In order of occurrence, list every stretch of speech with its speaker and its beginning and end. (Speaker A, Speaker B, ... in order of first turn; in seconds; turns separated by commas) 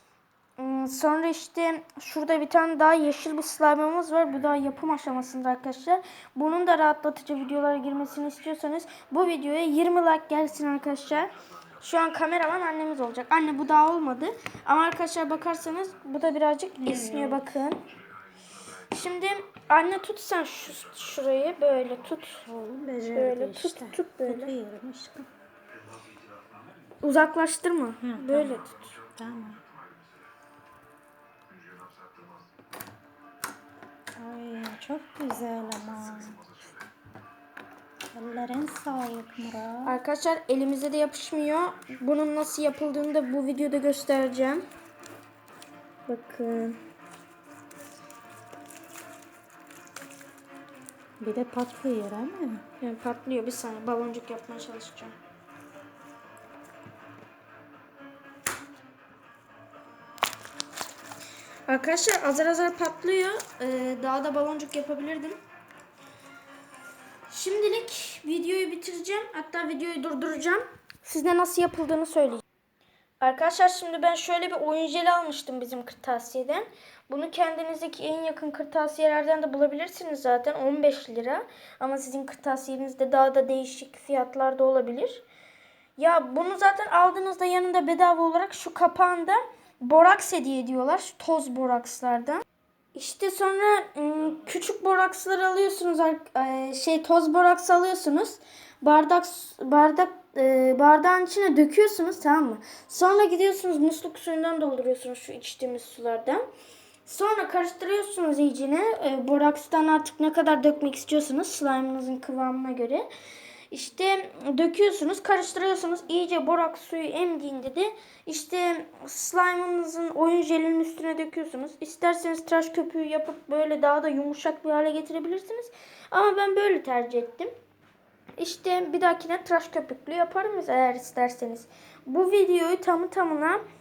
Speaker A: 0.6-17.8, Speaker B: 16.8-17.5, Speaker A: 18.9-22.4, Speaker B: 22.5-25.3, Speaker A: 23.1-24.6, Speaker A: 27.0-28.9, Speaker B: 28.0-29.6, Speaker B: 34.2-36.4, Speaker B: 38.1-40.0, Speaker A: 39.8-44.6, Speaker A: 46.1-46.8, Speaker B: 51.2-52.6, Speaker A: 52.8-55.2, Speaker A: 61.7-65.4, Speaker A: 67.3-72.4, Speaker A: 73.2-85.2, Speaker A: 86.0-92.4, Speaker A: 93.0-106.4, Speaker A: 107.1-113.1, Speaker A: 113.7-127.5, Speaker A: 128.4-133.6